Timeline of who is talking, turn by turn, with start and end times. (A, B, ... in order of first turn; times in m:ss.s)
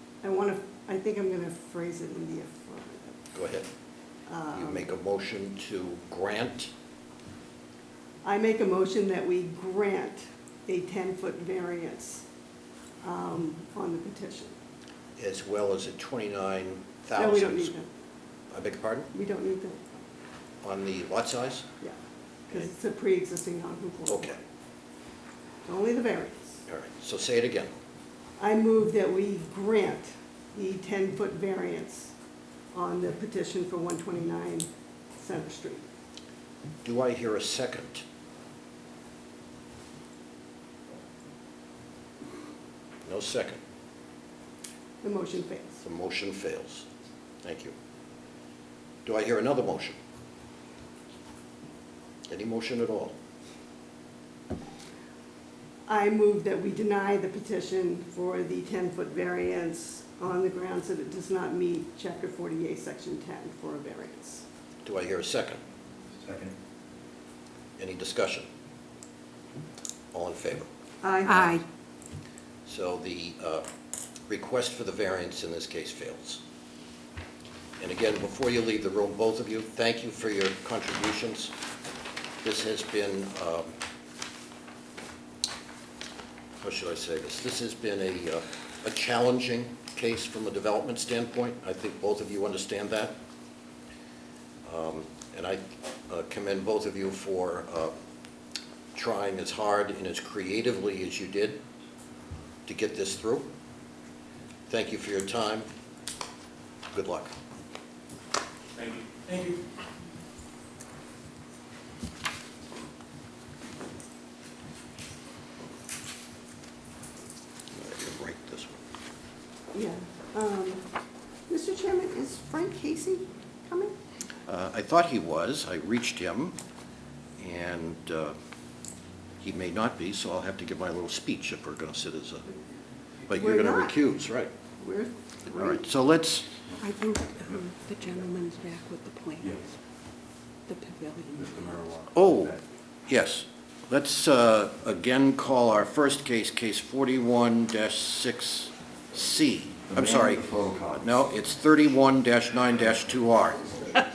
0:00.2-0:03.2 A
0:03.3-0:03.7 B
0:04.3-0:04.8 A
0:04.5-0:06.7 B
0:08.2-0:12.2 A
0:13.0-0:14.5 A
0:15.2-0:17.8 B
0:17.2-0:17.9 A
0:18.5-0:19.1 B
0:19.1-0:19.8 A
0:20.6-0:21.7 B
0:22.5-0:24.4 A
0:24.1-0:24.4 B
0:25.7-0:26.6 A
0:26.7-0:27.7 B
0:28.4-0:32.1 A
0:32.7-0:35.8 A
0:36.8-0:38.0 B
0:43.0-0:43.6 B
0:45.0-0:45.8 A
0:45.8-0:46.9 B
0:47.4-0:47.7 B
0:49.0-0:50.0 B
0:52.3-0:53.2 B
0:55.9-1:04.4 A
1:04.8-1:05.6 B
1:06.2-1:06.5 C
1:07.8-1:08.5 B
1:10.1-1:10.7 B
1:11.0-1:11.6 A
1:11.3-1:11.6 D
1:12.7-1:13.7 B
1:14.3-1:16.4 B
1:17.8-1:21.5 B
1:22.4-1:23.7 B
1:26.6-1:33.2 B
1:34.6-1:37.9 B
1:39.0-1:41.6 B
1:42.7-1:43.5 B
1:44.7-1:45.7 B
1:46.9-1:47.3 B
1:49.0-1:49.5 C
1:57.8-1:58.8 B
1:59.7-2:00.8 A
2:01.5-2:04.0 A
2:04.5-2:06.6 B
2:07.4-2:08.4 B
2:09.4-2:12.5 B
2:13.3-2:14.5 B
2:13.3-2:14.0 A
2:14.8-2:15.8 A
2:15.5-2:16.5 B
2:16.8-2:19.5 D
2:20.7-2:21.5 D
2:21.4-2:22.6 C
2:22.1-2:33.8 B
2:29.9-2:31.1 C